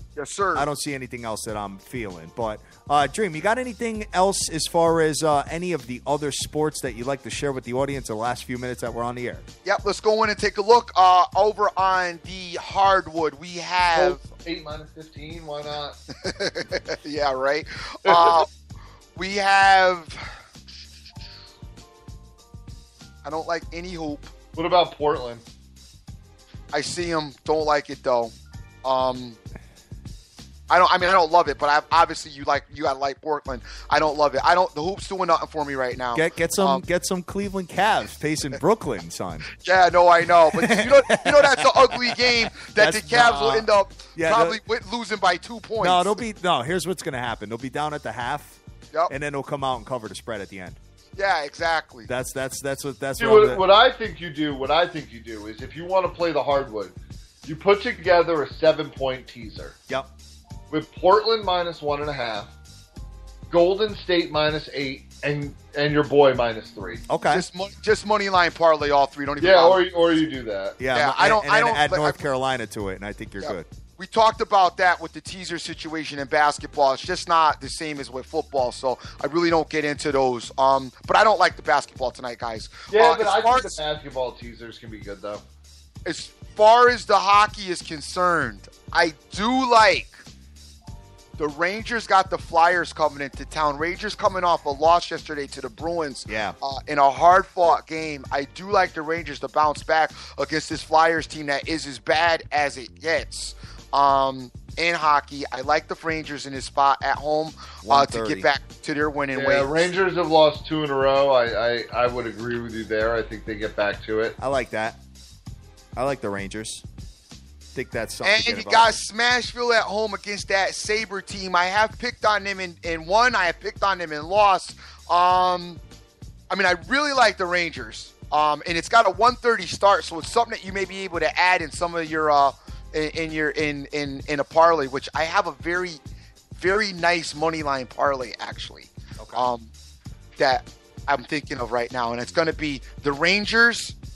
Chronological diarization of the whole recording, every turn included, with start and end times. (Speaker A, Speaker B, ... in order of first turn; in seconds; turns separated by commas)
Speaker A: 0.2-0.7, Speaker B: 0.5-9.4, Speaker A: 9.7-14.2, Speaker C: 13.9-16.0, Speaker A: 16.2-18.5, Speaker C: 18.1-18.4, Speaker A: 19.2-20.4, Speaker A: 23.2-24.3, Speaker C: 24.5-25.4, Speaker A: 26.7-28.3, Speaker A: 28.8-29.4, Speaker A: 30.7-36.8, Speaker B: 36.1-39.5, Speaker A: 39.6-46.2, Speaker B: 40.5-44.6, Speaker B: 45.8-48.6, Speaker B: 49.1-50.8, Speaker A: 51.2-52.1, Speaker B: 52.1-53.6, Speaker C: 53.2-57.0, Speaker C: 57.5-59.8, Speaker C: 60.7-62.5, Speaker C: 63.5-67.0, Speaker B: 67.1-67.5, Speaker A: 67.3-69.8, Speaker C: 69.4-70.8, Speaker B: 70.8-73.7, Speaker A: 70.9-72.2, Speaker A: 73.4-83.8, Speaker C: 82.9-85.4, Speaker A: 86.0-90.2, Speaker A: 91.4-109.9, Speaker B: 96.3-96.5, Speaker B: 107.8-108.5, Speaker C: 109.3-114.4, Speaker B: 114.4-115.0, Speaker B: 116.0-116.8, Speaker B: 117.7-119.0, Speaker A: 118.2-125.8, Speaker A: 126.5-136.0, Speaker A: 136.6-139.7, Speaker B: 139.2-139.5, Speaker A: 140.4-143.9